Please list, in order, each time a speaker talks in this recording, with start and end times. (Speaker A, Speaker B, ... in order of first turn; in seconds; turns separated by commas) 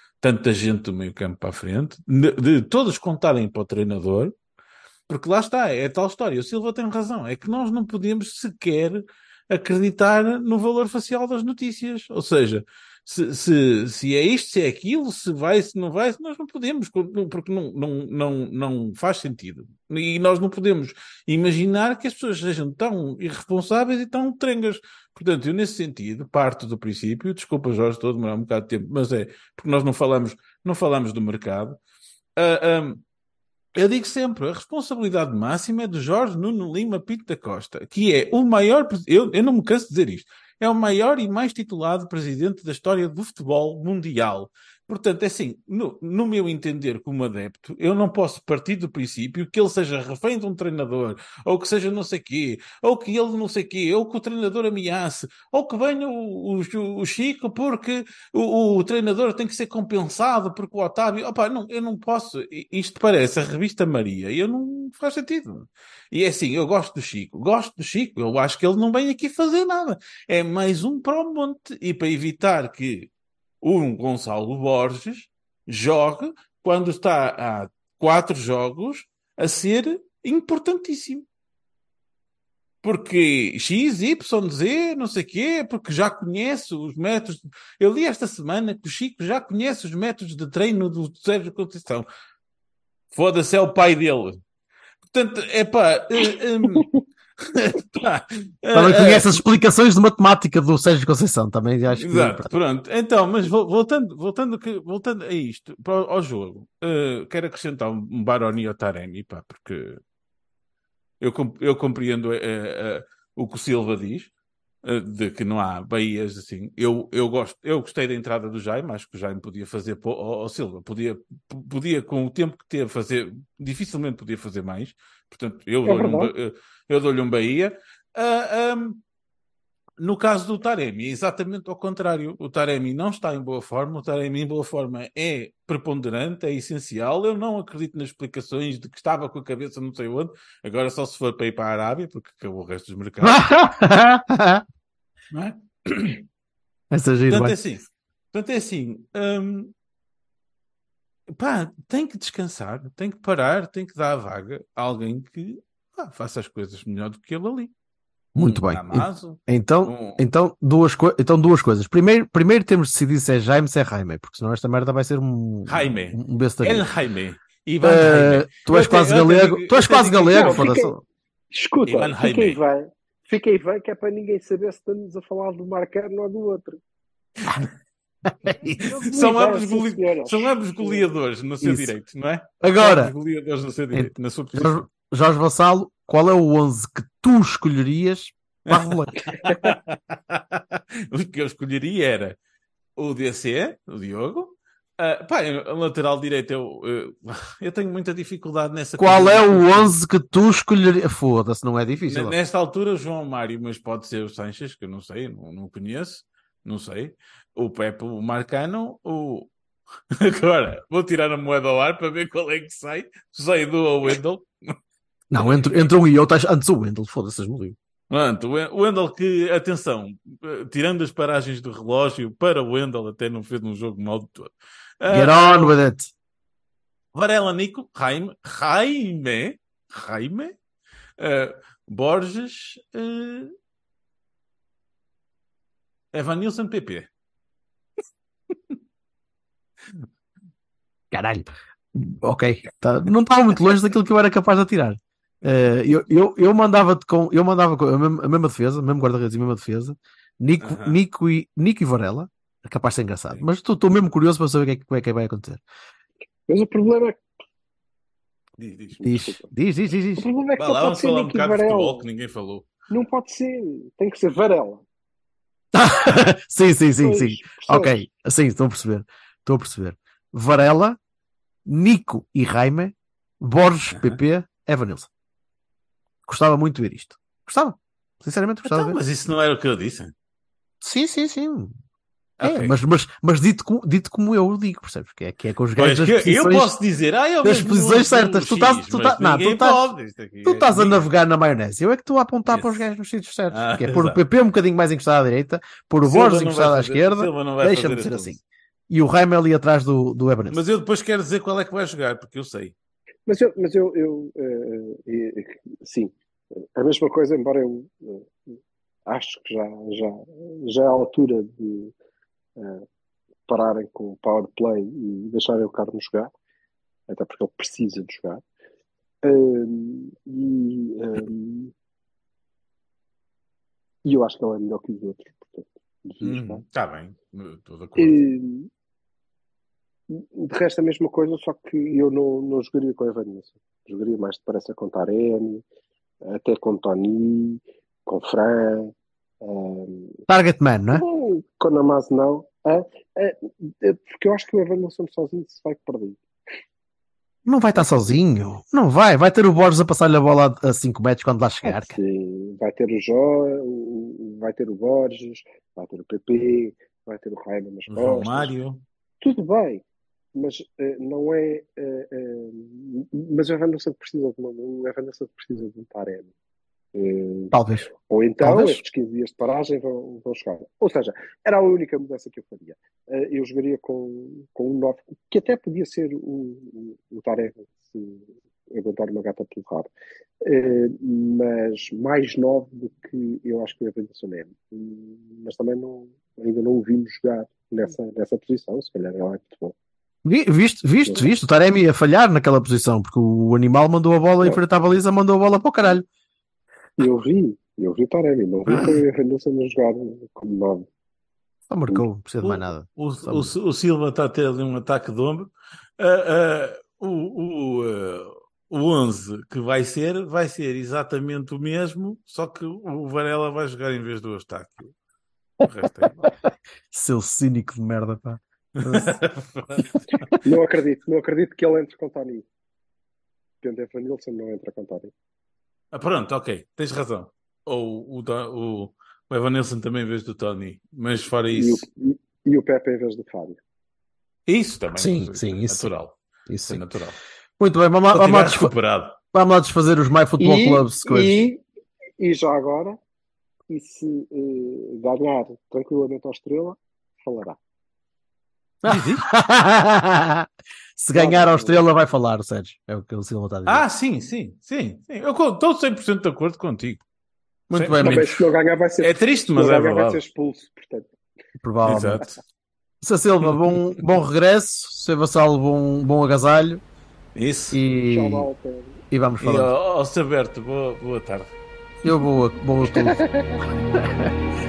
Speaker A: 0.2-4.3, Speaker A: 5.1-31.8, Speaker A: 32.4-33.0, Speaker A: 33.8-73.1, Speaker A: 73.6-81.2, Speaker A: 82.8-92.1, Speaker A: 93.1-94.4, Speaker A: 95.1-99.3, Speaker B: 98.7-102.5, Speaker A: 101.9-110.0, Speaker A: 111.2-114.3, Speaker A: 114.8-129.0, Speaker C: 125.9-126.3, Speaker A: 130.0-143.5, Speaker B: 143.2-144.7, Speaker A: 145.3-146.2, Speaker B: 146.9-147.6, Speaker A: 147.3-149.7, Speaker A: 151.3-157.7, Speaker A: 158.4-160.2, Speaker B: 158.4-166.9, Speaker A: 165.7-170.7, Speaker B: 167.8-171.0, Speaker C: 170.1-170.9, Speaker C: 171.5-176.8, Speaker A: 171.9-172.6, Speaker A: 177.4-177.7, Speaker C: 178.7-181.1, Speaker A: 178.7-184.8, Speaker B: 181.6-181.9, Speaker B: 182.6-183.1, Speaker B: 183.9-189.1, Speaker A: 188.7-192.4, Speaker A: 193.0-199.9, Speaker B: 199.0-202.3, Speaker A: 202.1-209.5, Speaker A: 210.1-214.8, Speaker B: 215.3-217.8, Speaker A: 215.3-215.8, Speaker A: 218.1-225.8, Speaker B: 225.1-226.1, Speaker A: 227.1-230.6, Speaker A: 231.2-233.5, Speaker A: 236.1-237.1, Speaker B: 241.1-255.6, Speaker A: 250.6-251.0, Speaker C: 256.5-257.2, Speaker A: 258.6-259.3, Speaker B: 259.0-260.3, Speaker C: 260.2-262.1, Speaker A: 260.6-262.7, Speaker C: 262.9-264.8, Speaker B: 265.7-271.0, Speaker C: 267.0-268.0, Speaker B: 271.7-275.1, Speaker B: 276.3-279.0, Speaker A: 278.6-280.1, Speaker B: 280.8-281.7, Speaker A: 282.4-282.7, Speaker B: 282.4-286.7, Speaker A: 285.8-291.1, Speaker B: 287.4-289.9, Speaker B: 290.4-300.6, Speaker A: 292.5-292.8, Speaker A: 293.5-294.2, Speaker A: 296.0-298.3, Speaker A: 300.5-302.7, Speaker C: 303.3-311.9, Speaker C: 312.6-312.8, Speaker C: 313.5-316.3, Speaker C: 317.1-318.4, Speaker C: 319.2-321.7, Speaker C: 324.1-326.6, Speaker A: 326.2-328.2, Speaker C: 328.0-328.7, Speaker C: 330.1-335.6, Speaker C: 336.2-340.2, Speaker B: 340.3-341.0, Speaker C: 340.9-346.2, Speaker B: 347.5-352.0, Speaker C: 351.6-358.5, Speaker A: 357.9-358.8, Speaker C: 359.2-359.8, Speaker C: 360.4-366.3, Speaker C: 366.9-379.9, Speaker B: 367.5-367.9, Speaker B: 368.4-368.8, Speaker C: 380.4-389.8, Speaker B: 390.2-396.1, Speaker C: 397.0-400.9, Speaker A: 398.7-399.0, Speaker B: 401.7-403.5, Speaker A: 402.4-414.9, Speaker A: 415.6-416.3, Speaker B: 416.9-419.2, Speaker A: 418.8-420.2, Speaker C: 420.4-422.5, Speaker C: 423.6-425.1, Speaker A: 425.9-431.9, Speaker C: 431.5-433.6, Speaker A: 434.5-436.2, Speaker B: 435.0-435.9, Speaker B: 436.5-436.9, Speaker A: 436.7-437.2, Speaker B: 437.6-438.7, Speaker A: 438.1-439.2, Speaker B: 439.3-441.5, Speaker C: 440.4-441.6, Speaker C: 442.2-443.0, Speaker C: 443.7-447.6, Speaker B: 448.8-453.9, Speaker A: 448.9-449.2, Speaker C: 451.1-451.8, Speaker A: 453.7-457.0, Speaker B: 457.7-458.3, Speaker A: 457.7-458.4, Speaker C: 458.0-461.1, Speaker A: 459.0-460.2, Speaker B: 461.6-462.2, Speaker A: 461.8-462.3, Speaker B: 463.0-466.8, Speaker A: 467.4-467.8, Speaker B: 467.7-468.5, Speaker C: 468.1-469.0, Speaker B: 469.1-469.7, Speaker A: 469.4-471.5, Speaker B: 472.0-474.3, Speaker C: 473.2-473.6